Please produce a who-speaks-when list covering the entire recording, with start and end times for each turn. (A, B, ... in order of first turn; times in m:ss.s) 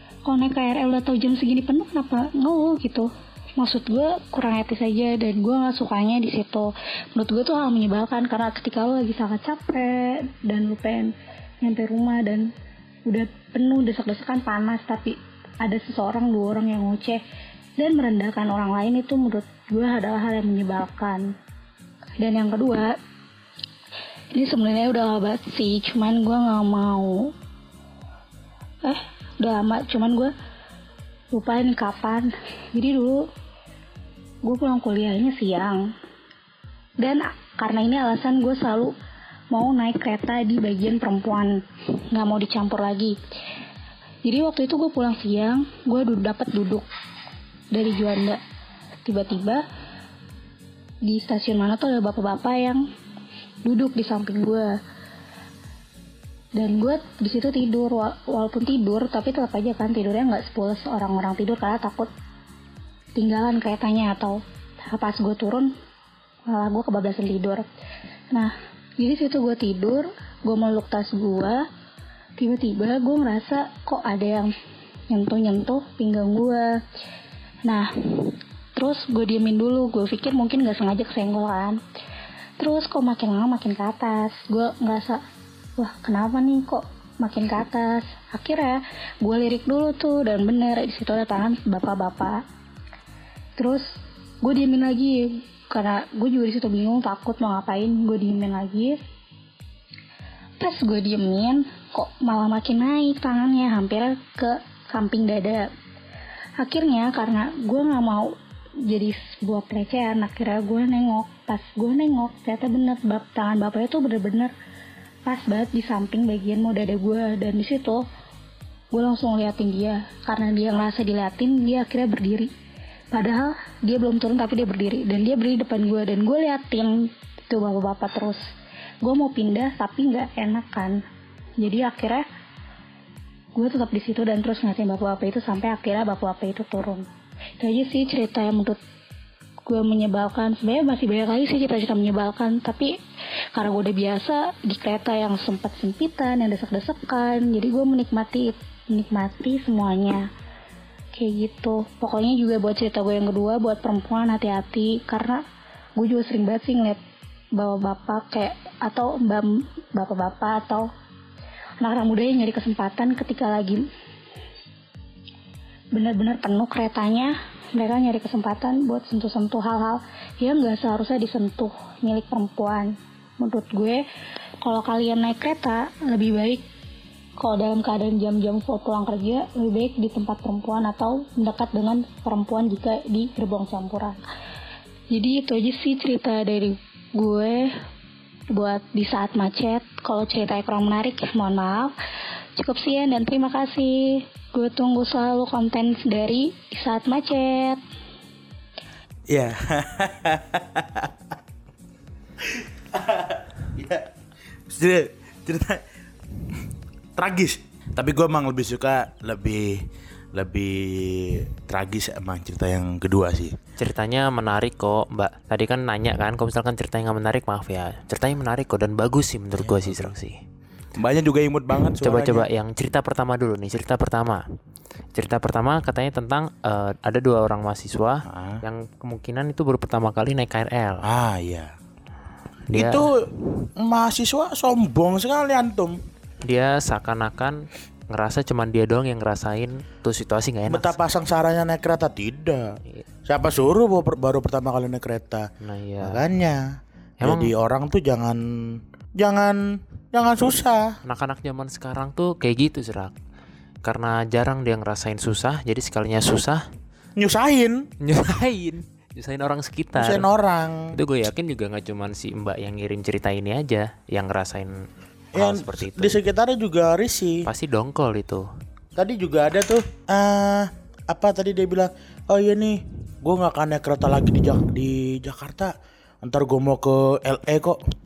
0:00.2-0:12.5 A
0:13.1-0:17.2 A
0:17.8-0:21.3 A
0:22.2-0:23.0 A
0:24.3-0:27.3 A
0:28.8-0:30.3 A
0:31.3-0:33.3 A
0:34.4-0:35.9 A
0:37.0-0:38.9 A
0:39.5-0:43.2 A
0:44.2-0:46.8 A
0:47.7-0:48.4 A
0:49.1-0:49.6 A
0:51.0-0:52.9 A
0:53.6-0:54.7 A
0:56.6-1:02.1 A
1:03.2-1:05.7 A
1:06.5-1:07.6 A
1:08.3-1:11.6 A
1:12.4-1:14.5 A
1:15.1-1:16.8 A
1:17.7-1:21.8 A
1:22.6-1:25.2 A
1:25.8-1:32.4 A
1:33.6-1:33.9 A
1:34.4-1:39.0 A
1:40.6-1:45.7 A
1:46.6-1:54.5 A
1:55.3-1:58.1 A
1:58.9-2:02.5 A
2:03.1-2:08.4 A
2:09.0-2:11.0 A
2:11.6-2:12.3 A
2:13.6-2:17.1 A
2:17.6-2:18.8 A
2:19.7-2:23.0 A
2:23.6-2:30.3 A
2:31.1-2:35.4 A
2:36.0-2:37.0 A
2:37.6-2:40.9 A
2:41.8-2:43.9 A
2:45.9-2:54.0 A
2:54.6-2:56.6 A
2:57.4-3:04.2 A
3:05.1-3:07.7 A
3:08.5-3:12.0 A
3:12.6-3:17.8 A
3:19.3-3:21.1 B
3:22.4-3:24.1 B
3:24.7-3:25.8 B
3:27.2-3:33.6 B
3:33.8-3:40.4 C
3:39.6-3:40.1 B
3:41.0-3:42.5 B
3:42.0-3:44.4 C
3:45.1-3:51.0 C
3:48.3-3:48.6 B
3:51.0-3:51.7 B
3:52.7-3:53.1 C
3:52.7-3:56.0 B
3:56.4-4:01.0 C
4:00.7-4:05.5 B
4:05.6-4:06.2 C
4:06.0-4:11.0 B
4:07.2-4:07.5 C
4:11.0-4:13.2 C
4:13.8-4:16.6 C
4:17.2-4:17.9 B
4:18.0-4:20.3 C
4:20.0-4:21.0 B
4:20.9-4:24.8 C
4:25.4-4:27.4 B
4:25.4-4:26.2 C
4:27.5-4:28.5 C
4:29.0-4:37.8 B